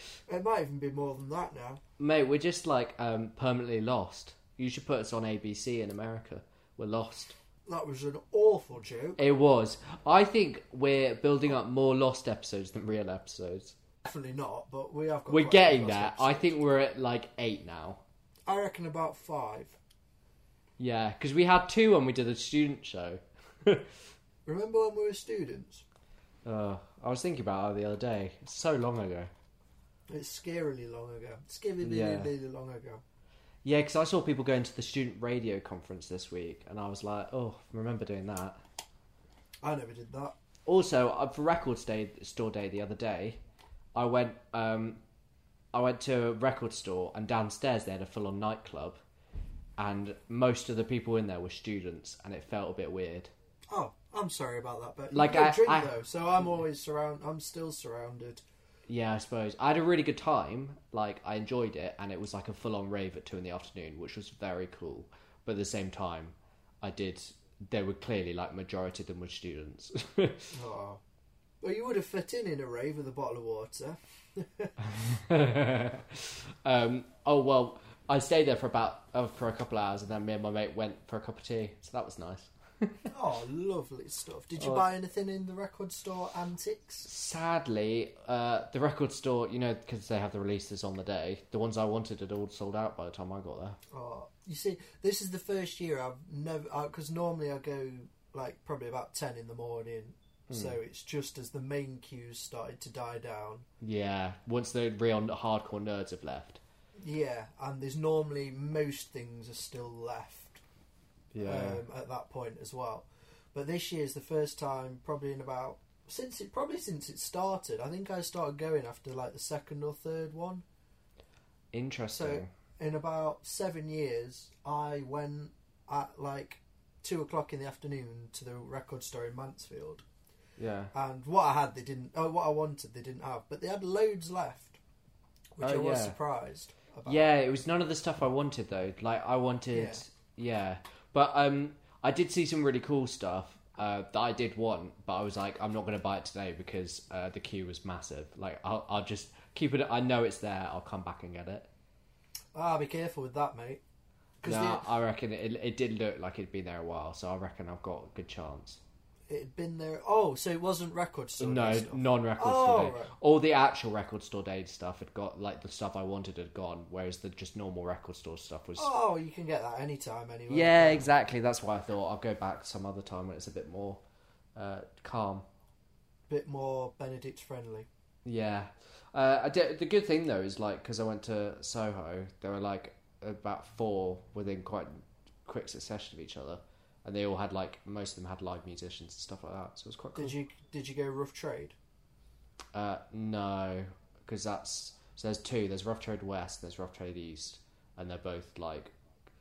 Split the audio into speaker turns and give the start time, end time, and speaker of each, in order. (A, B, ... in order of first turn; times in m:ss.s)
0:00.3-0:01.8 A
0:02.0-0:07.4 B
0:07.6-0:09.2 A
0:09.2-0:13.7 B
0:14.0-0:16.5 A
0:15.3-0:18.0 B
0:18.5-0:19.8 A
0:20.8-0:23.9 B
0:24.4-0:25.8 A
0:26.4-0:29.3 B
0:30.1-0:33.0 A
0:31.8-0:32.3 B
0:33.6-0:38.6 B
0:39.6-0:40.4 A
0:40.6-0:43.4 B
0:43.9-0:45.0 B
0:45.7-0:49.0 B
0:49.8-0:53.3 B
0:53.7-0:58.4 A
0:55.1-0:55.9 B
0:58.9-1:10.5 B
1:10.5-1:11.0 A
1:11.6-1:14.7 A
1:14.8-1:23.1 B
1:23.1-1:27.0 A
1:24.6-1:24.8 B
1:27.0-1:33.8 B
1:33.9-1:43.7 A
1:40.5-1:40.8 B
1:43.8-1:46.6 B
1:47.0-1:50.6 A
1:51.3-1:51.8 B
1:51.4-2:00.6 A
2:01.7-2:02.5 B
2:02.1-2:10.0 A
2:10.6-2:10.9 B
2:10.9-2:14.8 A
2:15.5-2:17.3 A
2:15.6-2:16.1 B
2:17.0-2:31.7 B
2:19.7-2:20.0 A
2:32.5-2:33.8 A
2:34.4-2:34.9 A
2:34.4-2:38.8 B
2:39.3-2:43.1 A
2:41.4-2:48.9 B
2:48.8-2:51.1 A
2:50.5-2:54.0 B
2:54.6-2:55.4 B
2:56.3-2:57.9 A
2:58.2-3:10.3 B
3:10.2-3:11.7 A
3:12.7-3:18.9 B